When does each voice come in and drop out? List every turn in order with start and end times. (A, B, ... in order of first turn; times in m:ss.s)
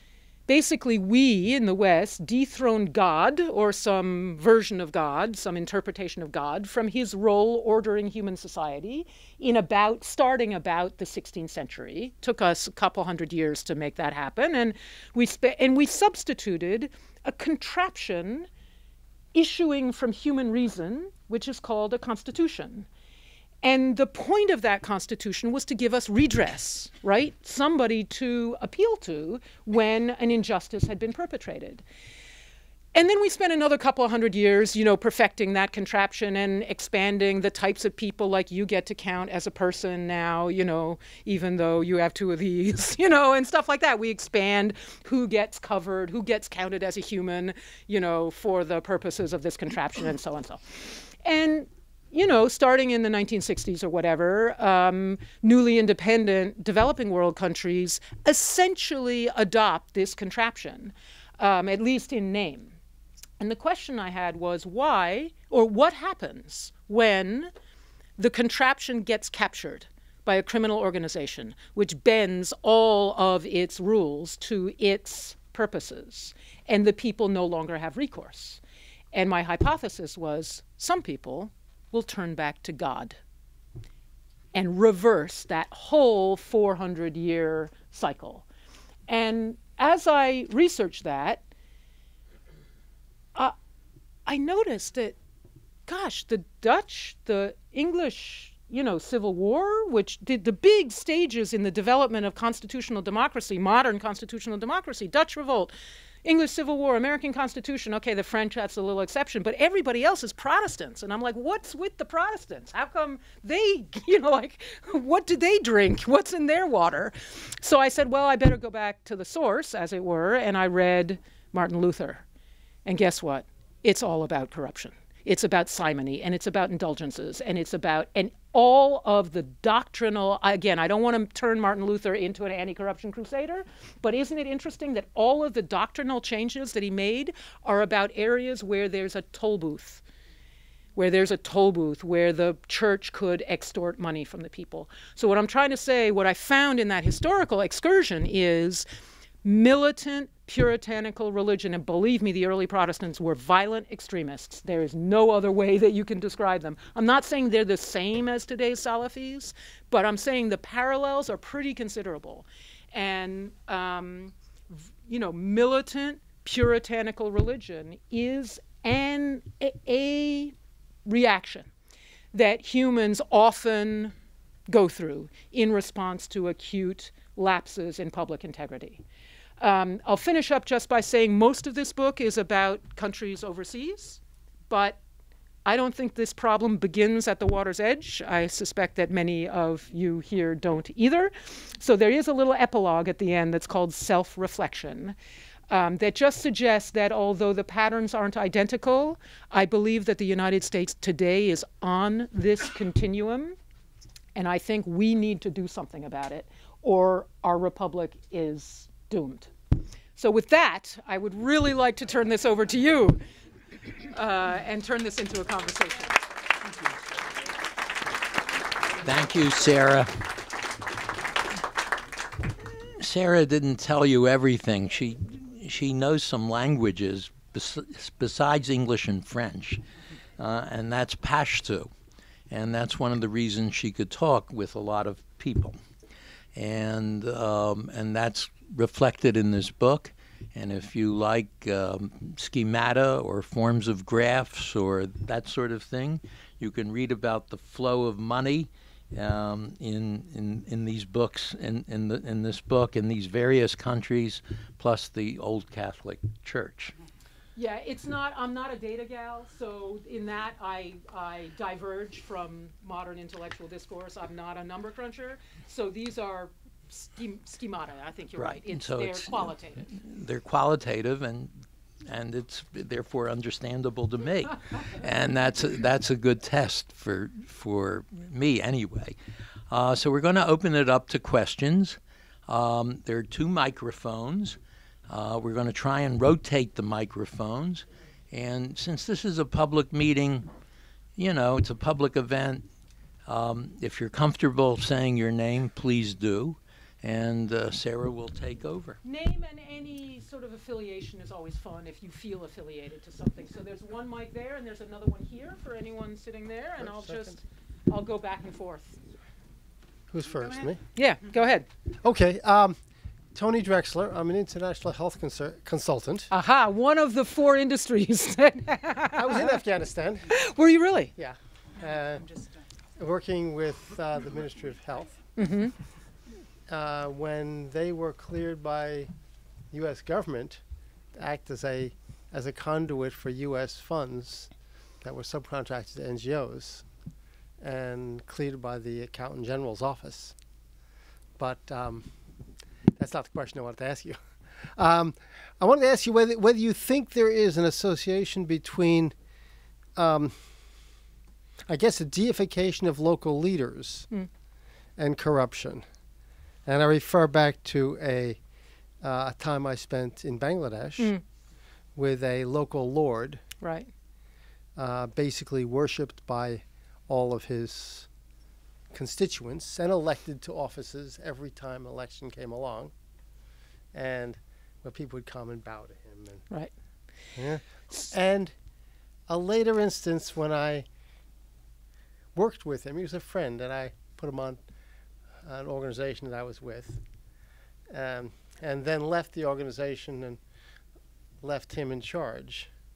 0:00.5-0:18.5 A
0:19.3-0:22.9 A
0:23.6-0:31.8 A
0:33.0-1:02.8 A
1:03.4-1:07.5 A
1:08.2-1:18.6 A
1:19.1-1:23.2 A
1:24.5-1:28.5 A
1:29.1-1:31.4 A
1:34.3-1:35.2 A
1:35.9-1:45.7 A
1:46.2-2:02.2 A
2:02.9-2:20.0 A
2:21.0-2:28.9 A
2:29.4-2:50.5 A
2:51.0-2:51.7 A
2:52.3-2:54.1 A
2:54.7-2:59.0 A
2:59.6-3:05.0 A
3:05.6-3:15.2 A
3:15.7-3:23.6 A
3:24.4-3:29.5 A
3:30.2-3:33.2 A
3:34.1-3:36.2 A
3:39.0-3:40.4 B
3:43.0-3:49.8 B
3:50.4-3:51.9 B
3:52.5-3:55.8 B
3:56.6-4:16.9 B
4:17.6-4:29.8 A
4:28.4-4:39.2 B
4:39.7-4:50.5 B
4:51.2-4:52.7 B
4:53.3-4:59.0 B
4:59.0-5:09.0 A
5:10.1-5:10.8 C
5:11.0-5:11.7 A
5:12.0-5:12.8 C
5:13.3-5:16.3 C
5:16.3-5:19.6 A
5:19.1-5:20.3 C
5:20.3-5:21.1 A
5:21.2-5:22.4 C
5:23.0-5:25.3 C
5:25.4-5:25.7 A
5:26.7-5:29.1 C
5:29.7-5:30.6 C
5:31.1-5:36.9 C
5:37.6-5:40.3 C
5:41.4-5:42.1 C
5:43.0-5:49.2 C
5:50.0-5:50.4 C
5:51.7-5:54.1 C
5:55.0-5:55.8 C
5:56.6-5:58.4 C
5:59.0-6:01.2 C
6:02.0-6:03.4 C
6:03.6-6:03.9 A
6:04.8-6:08.1 C
6:08.9-6:12.9 C
6:13.9-6:16.5 C
6:17.4-6:18.5 C
6:19.3-6:20.9 C
6:22.3-6:24.6 C
6:25.4-6:27.0 C
6:27.9-6:30.4 C
6:31.4-6:32.7 C